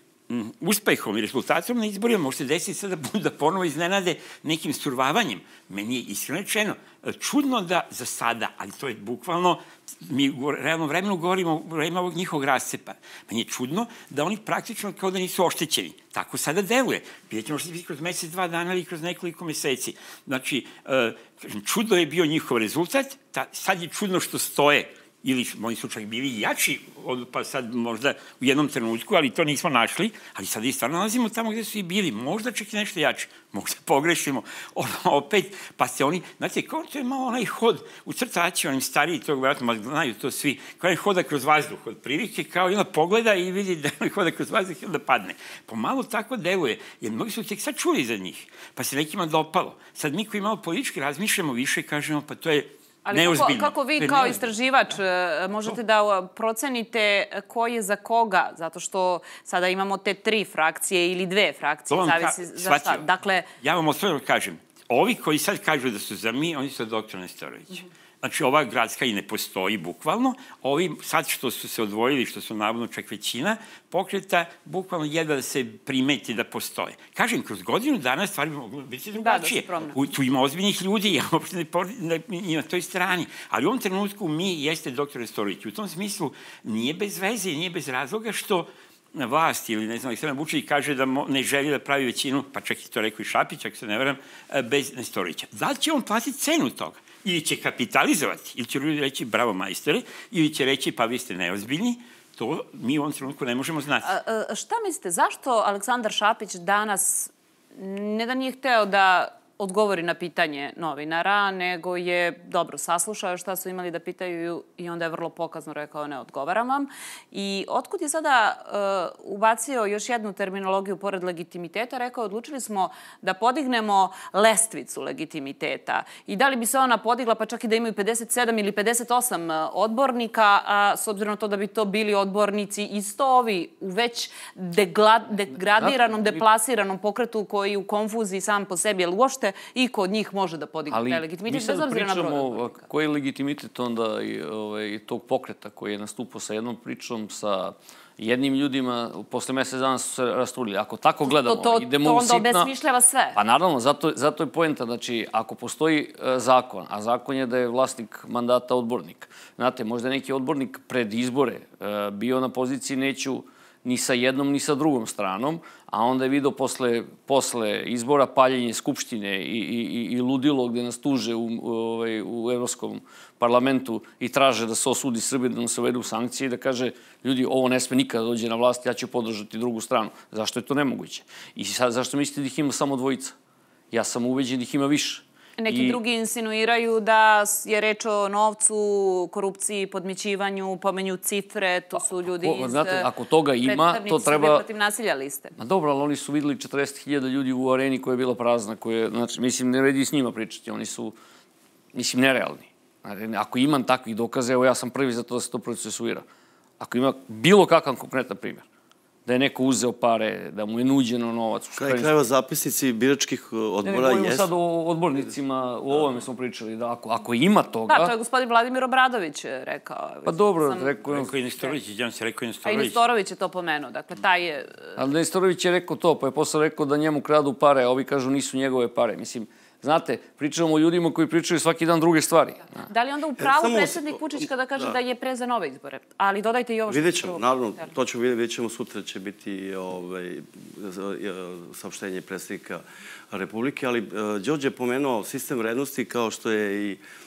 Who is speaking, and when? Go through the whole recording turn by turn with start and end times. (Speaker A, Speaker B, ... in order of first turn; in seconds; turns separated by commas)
Speaker A: 0.3-54.5, Speaker B: 53.0-63.5, Speaker A: 61.9-63.1, Speaker A: 63.6-104.1, Speaker B: 79.2-80.0, Speaker B: 104.0-142.8, Speaker C: 135.7-136.4, Speaker C: 140.9-152.7, Speaker B: 151.4-153.4, Speaker C: 153.3-183.3, Speaker C: 183.9-186.0, Speaker B: 185.6-193.1, Speaker C: 192.0-194.6, Speaker B: 193.6-195.5, Speaker C: 195.6-201.1, Speaker C: 201.9-206.2, Speaker C: 206.8-208.6, Speaker C: 209.2-212.1, Speaker D: 211.8-214.5, Speaker C: 213.8-218.1, Speaker B: 217.9-221.0, Speaker C: 220.2-221.3, Speaker A: 221.1-223.0, Speaker B: 222.6-225.0, Speaker C: 225.0-232.8, Speaker B: 232.9-237.4, Speaker D: 233.4-234.2, Speaker D: 236.9-247.0